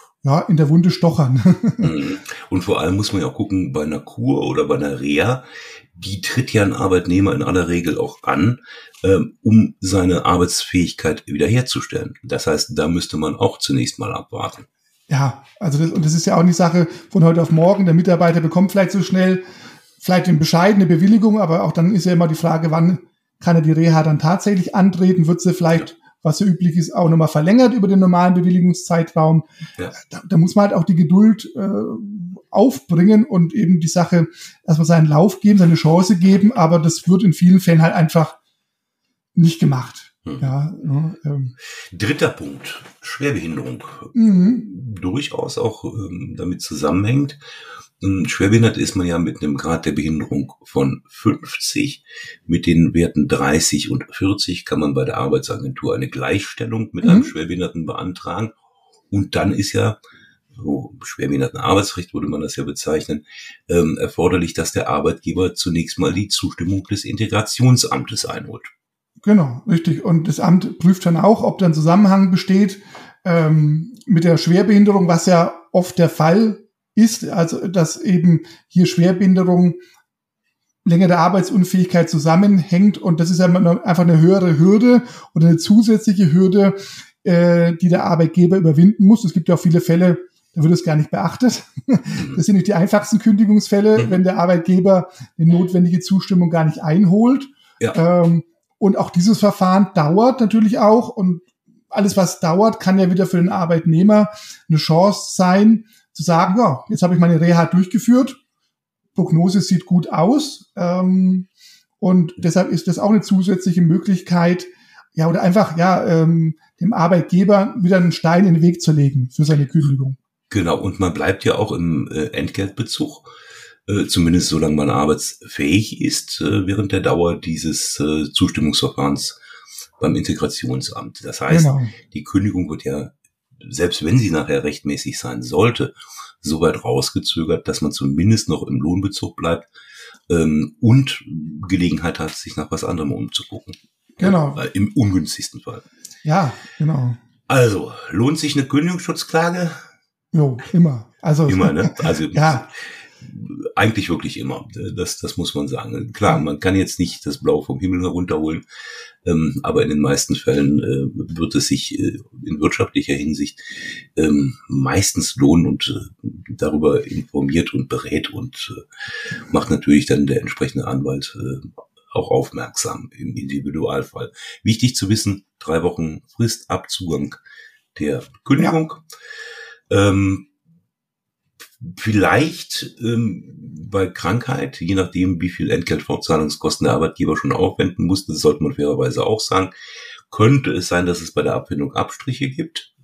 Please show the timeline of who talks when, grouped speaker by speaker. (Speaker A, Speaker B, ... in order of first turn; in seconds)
Speaker A: 0.2-1.9, 15.1-19.4, 20.0-38.4, 39.3-41.5, 44.1-44.6, 57.0-57.3, 69.2-79.8, 80.8-108.4, 109.2-111.5, 112.0-120.2, 131.5-131.9, 144.2-144.6, 146.2-147.2, 150.3-152.7
Speaker B: 1.8-5.4, 5.9-14.7, 41.9-47.4, 48.0-58.5, 59.1-60.0, 60.5-68.7, 92.1-92.4, 94.0-94.2, 120.5-123.3, 123.9-129.4, 130.0-139.7, 140.3-145.8, 147.5-149.8, 151.5-158.6, 159.2-163.6, 164.2-168.8, 169.5-177.4, 177.9-179.0, 179.9-180.5, 181.8-189.7, 190.3-192.9